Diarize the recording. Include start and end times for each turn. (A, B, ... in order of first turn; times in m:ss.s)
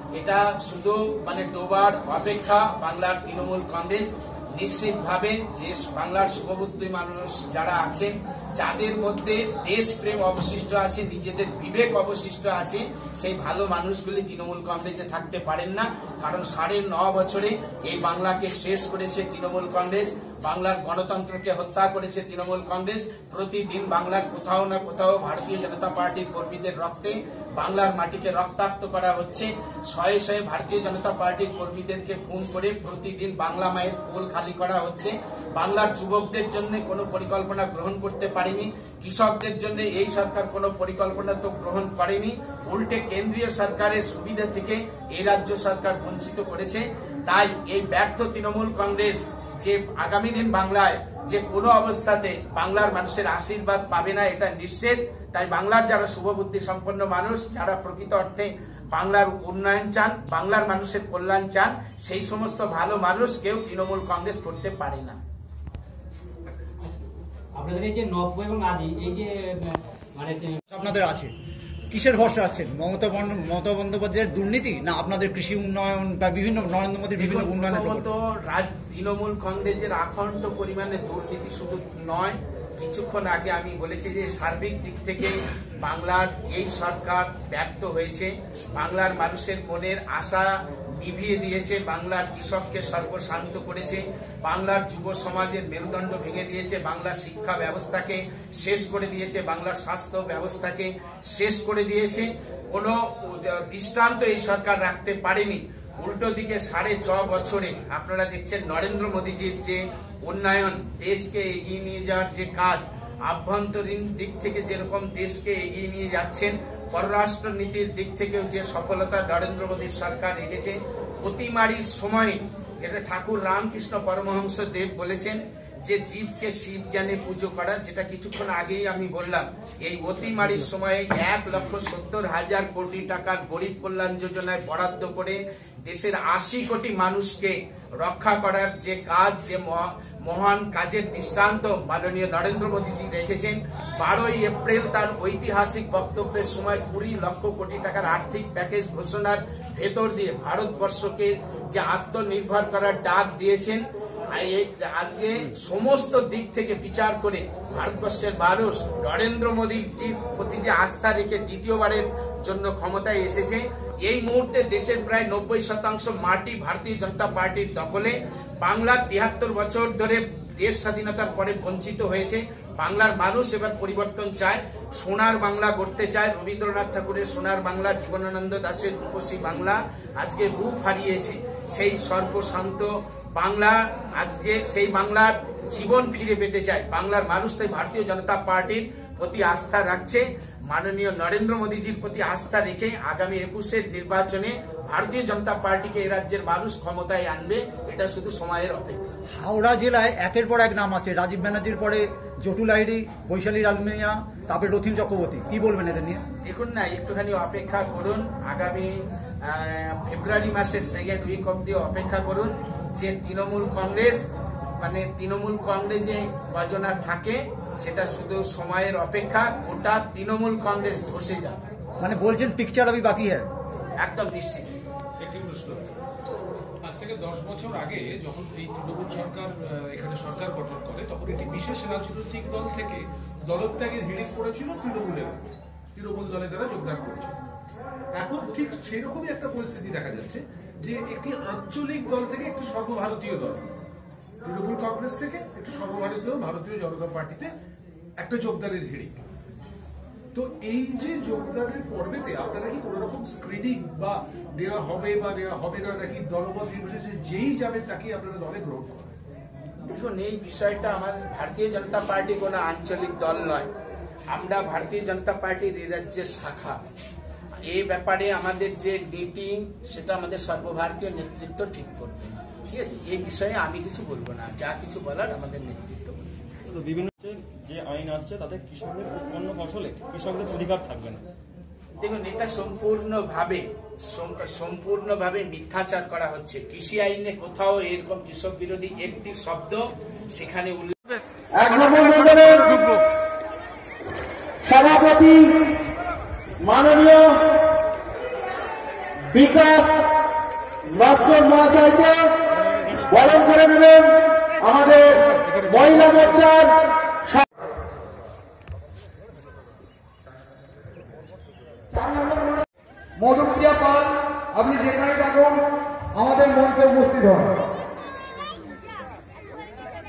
0:00.2-1:05.2 A
1:07.6-1:10.6 B
1:10.7-1:11.3 C
1:11.9-1:18.1 C
1:17.2-3:19.2 A
3:19.4-3:26.2 C
3:26.4-3:34.3 A
3:34.8-3:41.6 A
3:42.0-3:43.5 C
3:44.0-3:44.7 A
3:45.2-3:45.9 D
3:46.8-3:57.4 D
3:58.1-4:03.7 D
4:04.4-4:07.5 D
4:08.2-4:09.2 D
4:10.3-4:19.1 D
4:19.8-4:23.7 A
4:24.3-4:26.8 A
4:27.7-4:36.3 A
4:36.7-4:41.2 E
4:42.0-4:51.0 A
4:51.6-4:52.9 F
4:54.6-4:55.5 F
4:56.6-4:57.3 F
4:59.3-4:59.9 F
5:00.9-5:02.3 F
5:03.1-5:06.7 F
5:12.0-5:12.5 G
5:13.2-5:15.6 G
5:16.2-5:17.5 G